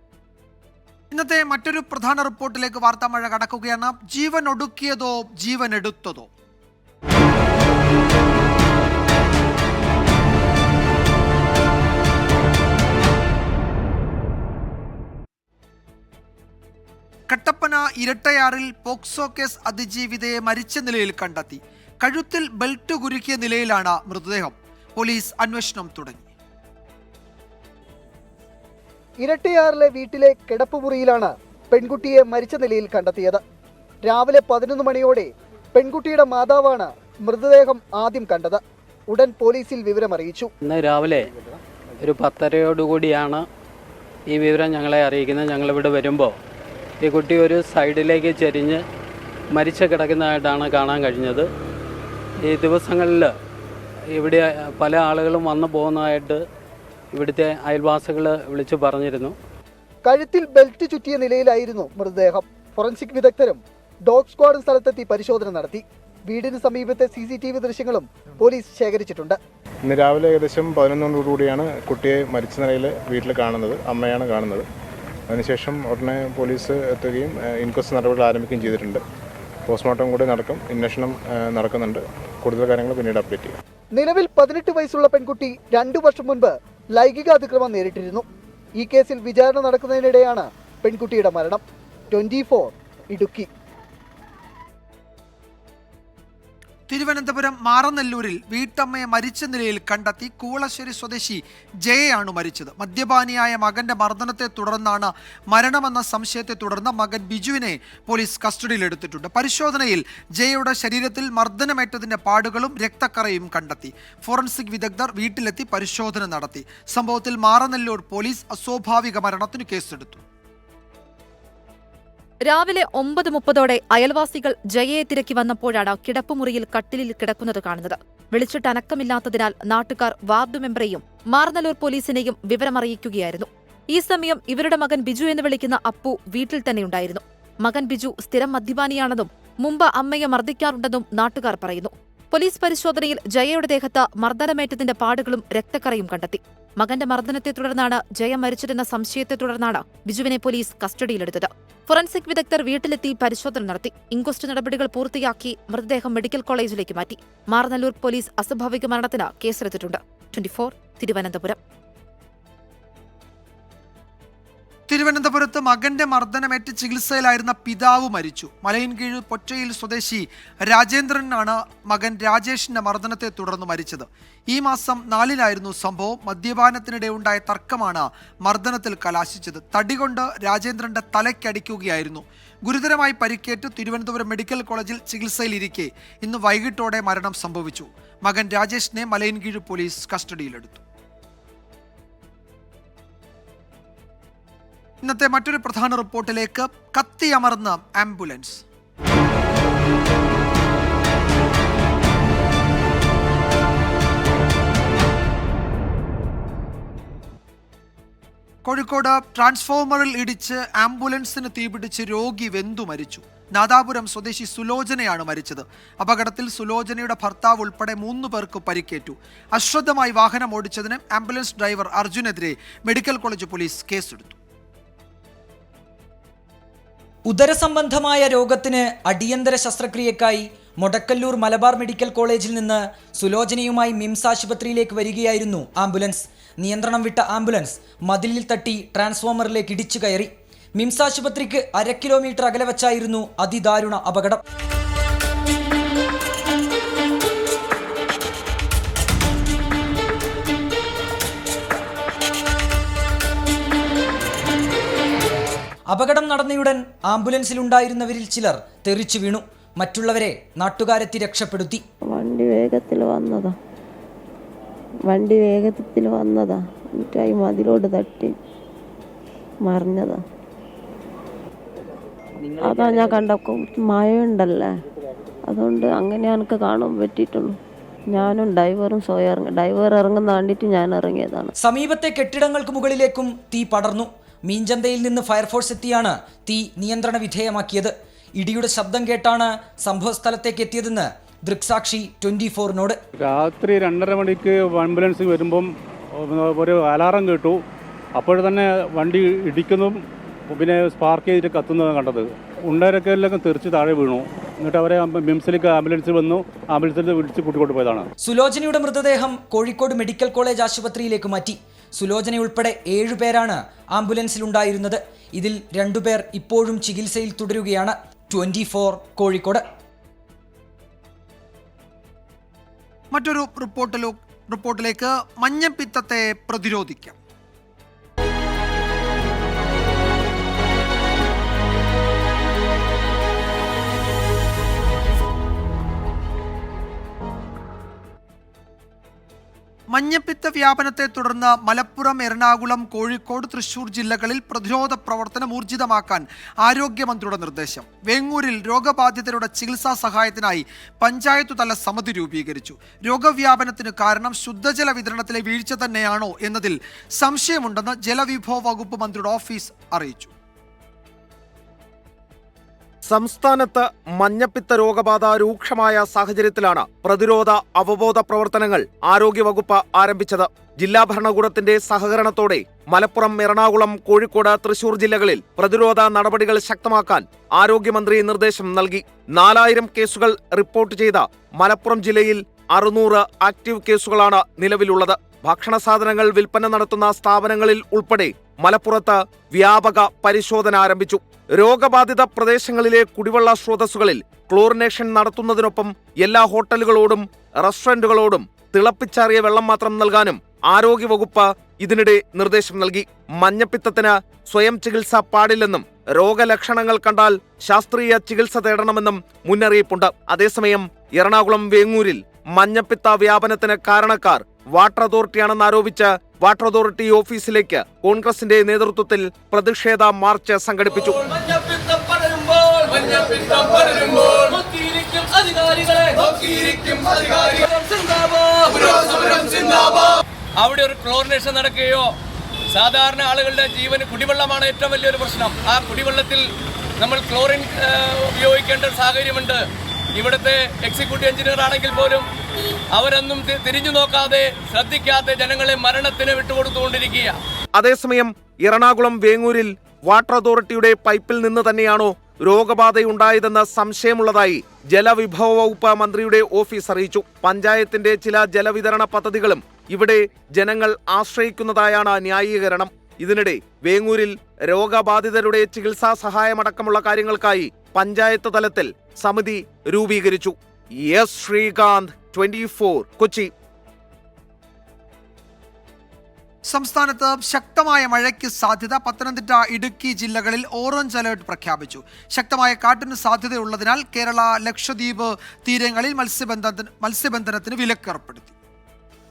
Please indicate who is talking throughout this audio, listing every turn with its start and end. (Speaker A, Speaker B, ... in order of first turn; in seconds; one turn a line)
Speaker A: 1.1-6.3
Speaker A: 17.3-26.3
Speaker B: 29.2-33.4
Speaker B: 34.0-40.5
Speaker C: 40.6-41.3
Speaker C: 42.0-43.5
Speaker C: 44.3-46.4
Speaker C: 47.0-48.8
Speaker C: 49.5-51.5
Speaker C: 52.5-53.3
Speaker C: 54.1-56.4
Speaker C: 57.1-59.3
Speaker B: 60.0-69.4
Speaker D: 69.9-74.7
Speaker D: 75.3-79.0
Speaker D: 79.7-83.6
Speaker B: 84.0-88.2
Speaker B: 88.8-93.5
Speaker A: 96.9-120.2
Speaker E: 122.5-161.6
Speaker A: 164.9-190.8
Speaker A: 195.0-198.6
Speaker A: 208.7-224.4
Speaker F: 227.3-244.4
Speaker F: 255.9-261.8
Speaker G: 262.1-263.5
Speaker G: 265.1-268.3
Speaker G: 269.6-270.2
Speaker G: 272.6-274.7
Speaker G: 275.5-277.6
Speaker G: 278.1-281.5
Speaker F: 281.6-293.0
Speaker H: 293.2-297.6
Speaker H: 298.2-308.1
Speaker F: 308.2-319.6
Speaker A: 323.1-327.2
Speaker A: 339.9-360.3
Speaker I: 363.1-421.2
Speaker J: 421.0-432.1
Speaker J: 432.7-436.4
Speaker J: 437.0-439.6
Speaker J: 440.1-442.3
Speaker J: 442.9-447.4
Speaker I: 447.8-473.5
Speaker A: 476.7-488.5